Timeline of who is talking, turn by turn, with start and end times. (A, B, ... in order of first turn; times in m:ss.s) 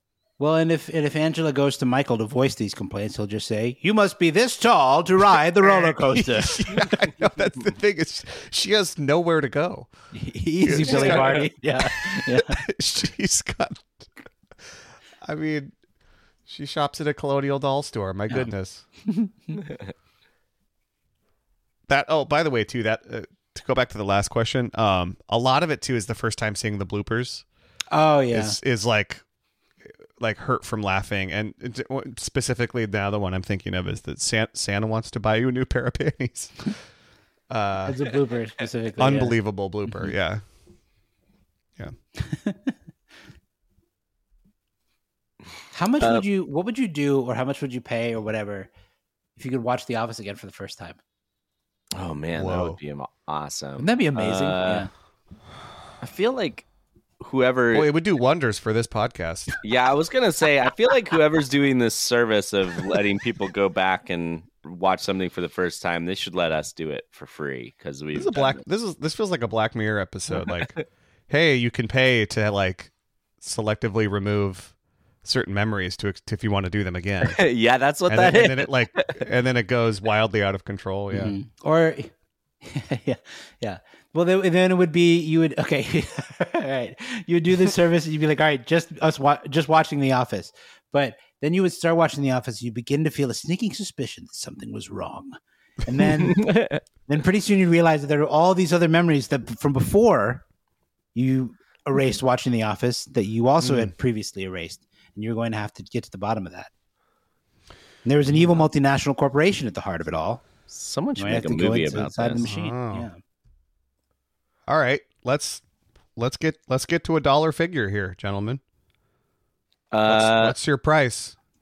0:00.4-0:06.9 A
0:05.6-0:09.9 B
0:10.1-0:12.6 A
0:10.6-0:14.1 B
0:10.9-0:11.3 C
0:15.2-0:15.7 B
0:16.4-0:18.8 B
0:21.9-0:27.4 B
0:27.9-0:28.6 A
0:28.3-0:29.2 B
0:30.2-0:36.7 B
0:37.5-0:38.1 B
0:37.8-0:39.4 A
0:39.0-0:40.4 B
0:42.2-0:42.7 A
0:45.7-0:48.7 A
0:49.4-0:51.0 A
0:51.9-0:54.9 C
0:52.3-0:52.8 B
0:53.8-0:54.9 A
0:56.0-0:56.6 C
0:57.2-0:57.9 C
0:57.7-0:59.5 B
0:59.6-1:08.6 C
1:08.1-1:17.4 B
1:10.4-1:10.8 C
1:17.2-1:19.2 C
1:18.1-1:21.4 B
1:21.1-1:22.1 A
1:22.6-1:40.4 A
1:36.4-1:36.8 C
1:41.1-1:46.7 A
1:43.6-1:43.9 B
1:48.0-1:50.4 A
1:50.7-1:52.4 C
1:51.2-1:53.2 A
1:52.4-1:53.1 B
1:54.7-1:55.6 B
1:56.2-1:58.6 B
1:59.9-2:00.5 C
2:00.0-2:01.4 B